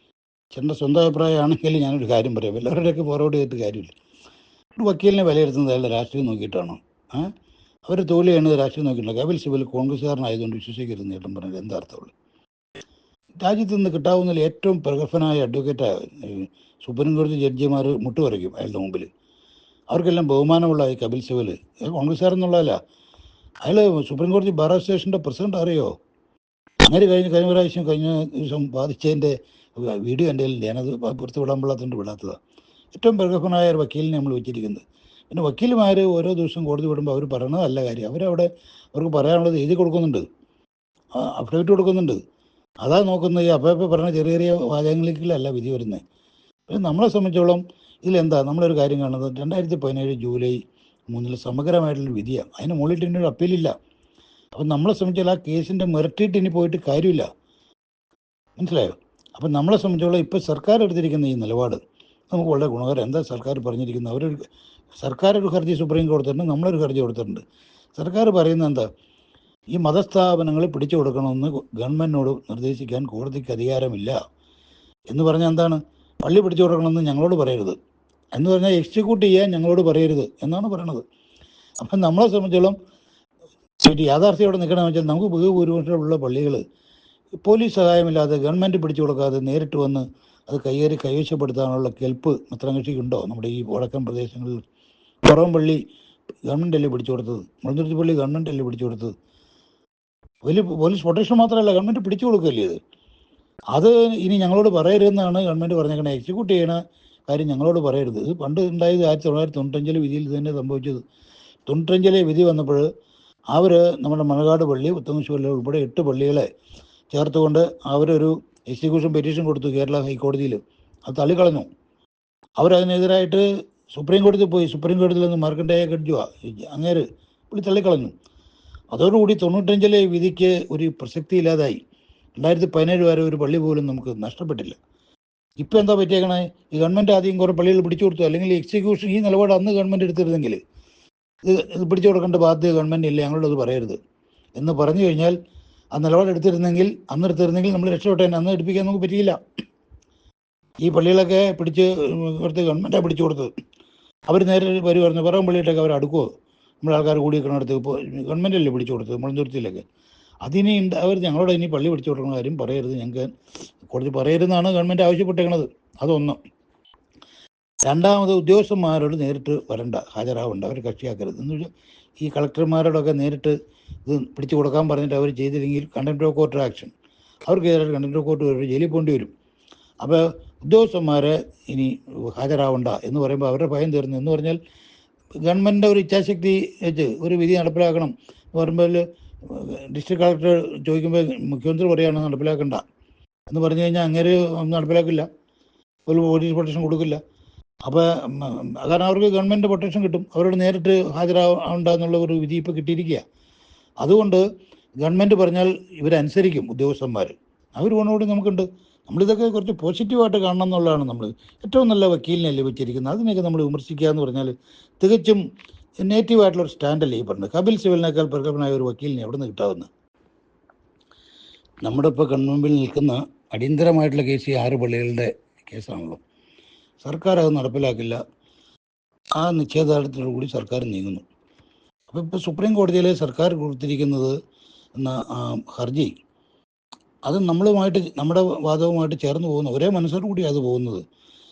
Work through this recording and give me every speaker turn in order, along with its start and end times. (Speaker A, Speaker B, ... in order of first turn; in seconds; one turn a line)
Speaker A: 0.5-3.9
Speaker A: 4.8-7.3
Speaker A: 7.9-12.1
Speaker A: 13.4-19.1
Speaker A: 19.9-22.8
Speaker A: 23.6-25.9
Speaker A: 26.9-32.4
Speaker A: 32.9-40.2
Speaker A: 41.2-42.2
Speaker A: 42.8-46.0
Speaker A: 46.7-50.6
Speaker A: 51.1-53.7
Speaker A: 54.5-57.3
Speaker A: 58.6-61.8
Speaker A: 62.3-64.4
Speaker A: 65.0-67.4
Speaker A: 68.0-68.9
Speaker A: 69.8-74.2
Speaker A: 75.1-77.8
Speaker A: 78.3-81.0
Speaker A: 81.8-82.8
Speaker A: 83.8-86.6
Speaker A: 87.4-94.6
Speaker A: 95.2-95.8
Speaker A: 96.5-99.1
Speaker A: 100.4-102.8
Speaker A: 103.7-111.0
Speaker A: 111.7-112.8
Speaker A: 113.5-116.5
Speaker A: 117.1-121.7
Speaker A: 122.6-123.4
Speaker A: 124.0-128.1
Speaker A: 128.9-131.8
Speaker A: 132.4-134.8
Speaker A: 135.6-140.6
Speaker A: 141.4-144.0
Speaker A: 144.6-145.4
Speaker A: 145.9-149.4
Speaker A: 150.8-153.5
Speaker A: 154.3-156.3
Speaker A: 156.8-159.8
Speaker A: 160.4-163.3
Speaker A: 163.8-166.4
Speaker A: 167.8-171.7
Speaker A: 172.2-173.6
Speaker A: 174.1-176.9
Speaker A: 177.5-179.3
Speaker A: 180.0-184.6
Speaker A: 185.4-192.8
Speaker A: 193.5-195.3
Speaker A: 196.1-197.2
Speaker A: 197.9-203.2
Speaker A: 204.0-204.4
Speaker A: 205.0-215.4
Speaker A: 216.0-219.9
Speaker A: 221.8-226.2
Speaker A: 227.0-228.2
Speaker A: 229.4-231.2
Speaker A: 232.1-234.3
Speaker A: 235.0-236.1
Speaker A: 237.2-241.0